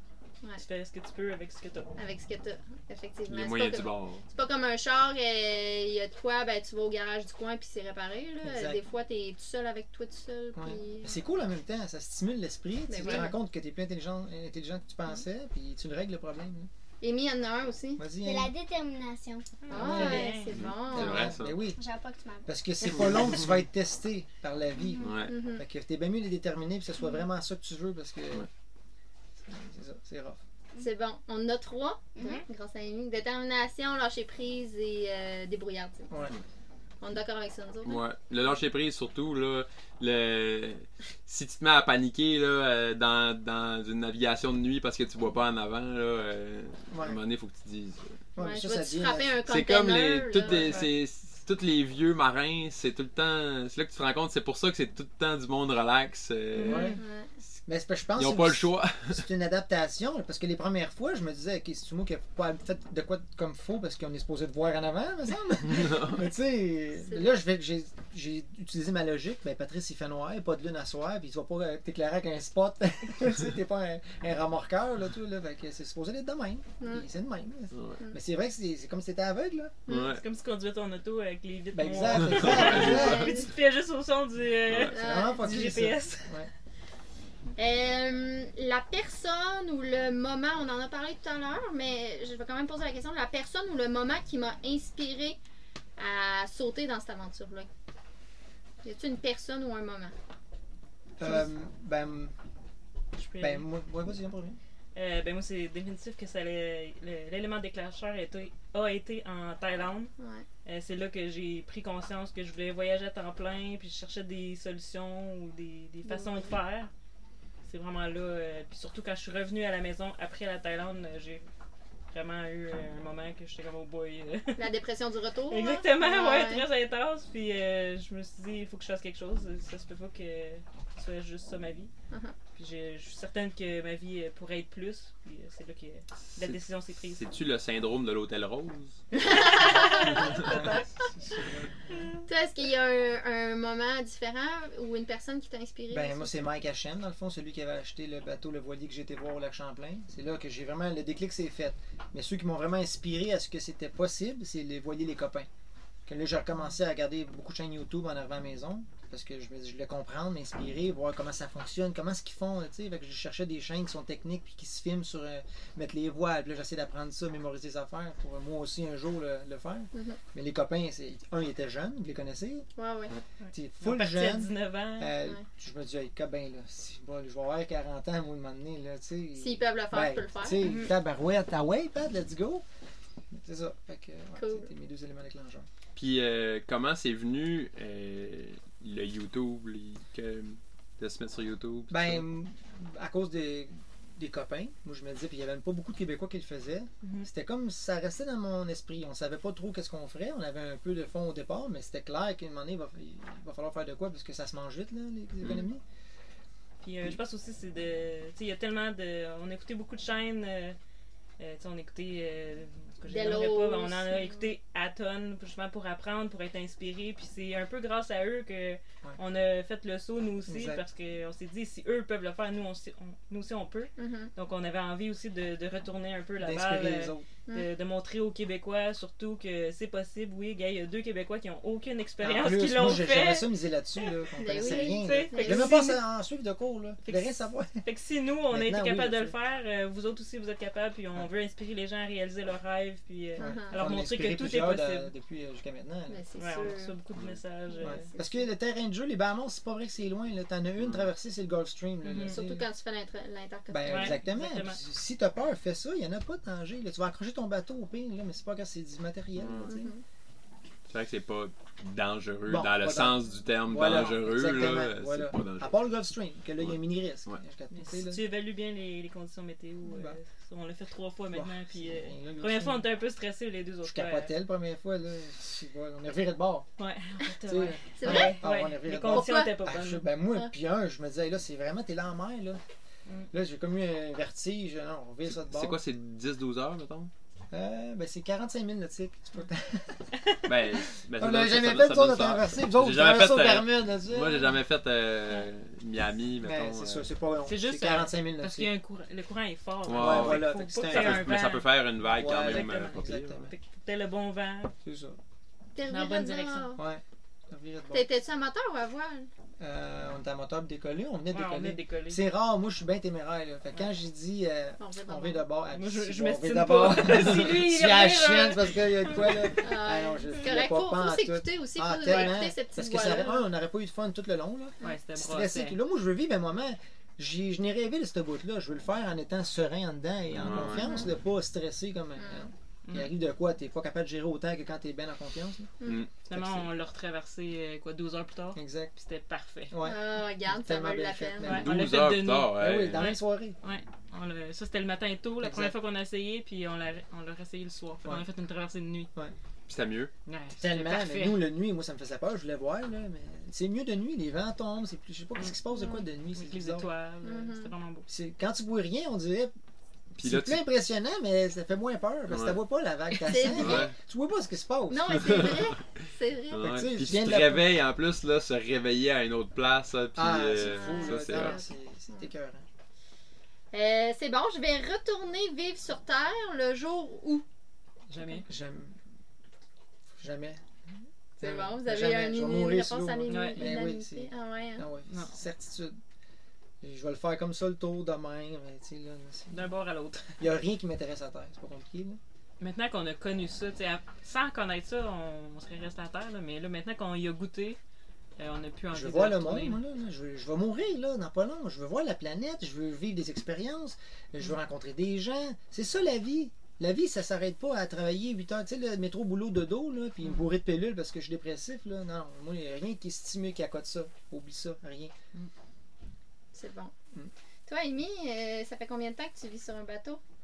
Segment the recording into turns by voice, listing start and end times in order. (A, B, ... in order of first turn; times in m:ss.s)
0:00.6-0:01.9 A
0:02.0-0:11.2 B
0:03.3-0:04.2 C
0:08.4-0:08.8 D
0:10.5-0:16.7 D
0:12.9-0:13.3 B
0:13.0-0:13.3 A
0:17.0-0:18.0 B
0:18.0-0:18.5 D
0:18.2-0:19.5 E
0:19.6-0:20.6 A
0:19.7-0:21.3 B
0:19.7-0:20.4 D
0:20.5-0:21.6 C
0:20.9-0:21.8 D
0:21.7-0:22.5 E
0:22.4-0:28.5 D
0:24.9-0:25.2 E
0:25.0-0:25.3 C
0:25.2-0:25.6 B
0:29.4-0:30.4 D
0:30.8-0:36.1 B
0:32.2-0:32.4 E
0:36.1-0:36.4 D
0:37.0-0:38.0 B
0:37.8-0:48.2 C
0:46.9-0:47.2 D
0:48.4-0:49.4 D
0:48.4-0:50.8 B
0:49.5-0:57.0 C
0:50.6-0:50.9 A
0:56.5-0:57.0 A
0:56.7-0:57.0 D
0:56.9-0:57.3 B
0:57.6-1:19.8 D
0:58.2-0:59.2 C
1:05.7-1:06.2 C
1:07.0-1:07.4 B
1:16.8-1:17.0 B
1:17.7-1:18.0 C
1:19.9-1:20.2 C
1:20.0-1:26.3 A
1:21.7-1:23.5 D
1:22.2-1:23.2 C
1:22.5-1:23.5 B
1:24.7-1:24.9 C
1:24.9-1:25.5 B
1:24.9-1:26.5 D
1:27.6-1:35.4 B
1:36.0-1:37.7 B
1:38.8-1:40.1 B
1:41.2-1:42.3 D
1:43.2-1:43.6 A
1:43.4-1:44.6 D
1:44.9-1:50.1 A
1:50.2-1:50.4 B
1:50.6-1:56.9 A
1:56.0-1:56.5 B
1:57.6-2:01.4 A
2:02.1-2:04.7 A
2:04.6-2:06.6 B
2:05.5-2:11.9 A
2:12.1-2:12.3 B
2:12.5-2:17.2 A
2:16.4-2:19.0 C
2:19.1-2:20.8 B
2:19.2-2:21.1 A
2:20.4-2:22.0 D
2:21.9-2:22.2 A
2:22.3-2:26.3 B
2:25.9-2:35.5 D
2:36.1-2:52.7 D
2:49.9-2:50.2 B
2:52.8-2:53.1 B
2:53.4-2:55.2 A
2:53.5-3:02.6 D
2:59.4-3:00.6 B
3:00.6-3:00.9 A
3:03.3-3:05.7 D
3:04.4-3:04.7 B
3:05.9-3:12.2 C
3:11.9-3:25.8 D
3:17.0-3:17.3 A
3:26.8-3:30.8 A
3:31.4-3:54.0 A
3:33.1-3:34.5 B
3:40.4-3:40.8 D
3:44.0-3:44.3 B
3:46.4-3:47.3 D
3:52.2-3:57.8 D
3:54.4-3:55.8 B
3:54.6-3:56.0 A
3:57.0-4:05.1 A
3:58.5-3:59.3 D
4:03.4-4:03.8 B
4:03.4-4:06.2 D
4:06.1-4:06.9 B
4:06.4-4:08.0 A
4:07.1-4:07.4 C
4:07.7-4:08.5 B
4:07.8-4:12.6 D
4:10.8-4:11.1 C
4:12.0-4:12.4 A
4:12.2-4:14.2 B
4:13.7-4:19.9 D
4:13.9-4:14.8 A
4:19.3-4:19.8 C
4:19.6-4:20.0 B
4:20.9-4:25.7 C
4:22.4-4:28.2 D
4:23.8-4:24.2 A
4:26.6-4:27.4 C
4:27.7-4:34.3 A
4:29.8-4:30.2 D
4:31.3-4:32.9 D
4:33.8-4:36.6 D
4:36.8-4:40.0 A
4:37.4-4:42.6 D
4:37.9-4:38.4 B
4:39.0-4:39.6 B
4:43.3-4:45.8 D
4:45.3-4:47.1 C
4:47.5-4:50.0 D
4:50.4-4:57.1 C
4:51.2-4:54.5 D
4:56.4-4:58.7 D
4:57.4-5:04.7 A
4:59.8-5:03.4 C
4:59.9-5:01.4 D
5:02.1-5:03.5 D
5:04.8-5:05.2 D
5:05.7-5:06.8 B
5:05.9-5:06.7 A
5:06.8-5:08.1 D
5:07.9-5:09.3 B
5:09.6-5:35.7 D
5:11.3-5:12.2 A
5:14.8-5:15.4 B
5:15.7-5:19.6 A
5:19.6-5:23.5 B
5:24.8-5:25.8 A
5:30.3-5:31.0 C
5:30.7-5:31.1 B
5:32.2-5:32.5 B
5:32.8-5:33.1 A
5:35.8-5:36.1 C
5:36.3-5:39.7 A
5:36.3-5:36.7 D
5:38.5-5:38.9 D
5:39.7-5:41.9 D
5:39.8-5:41.6 B
5:41.4-5:49.1 A
5:41.6-5:43.0 C
5:42.5-5:43.6 D
5:45.4-5:45.7 D
5:49.7-5:50.1 C
5:50.3-5:51.4 A
5:50.6-5:56.9 D
5:55.4-5:58.1 A
5:57.2-5:57.7 B
5:58.1-5:59.5 D
6:00.1-6:05.6 D
6:00.2-6:00.6 C
6:02.3-6:02.6 C
6:03.2-6:03.9 B
6:03.5-6:03.9 C
6:04.9-6:06.8 B
6:05.2-6:05.6 C
6:06.5-6:11.6 C
6:06.6-6:07.8 D
6:10.2-6:12.6 D
6:10.6-6:12.3 B
6:13.7-6:17.4 B
6:18.1-6:18.4 A
6:18.4-6:18.9 D
6:20.1-6:20.6 D
6:21.4-6:24.9 B
6:21.4-6:26.0 D
6:23.3-6:23.8 A
6:25.1-6:25.3 A
6:26.8-6:29.7 D
6:29.5-6:30.4 A
6:30.4-6:32.2 D
6:32.6-6:37.8 A
6:38.4-6:39.8 A
6:38.9-6:55.1 D
6:50.2-6:50.5 A
6:56.5-6:56.9 B
6:57.7-7:00.2 B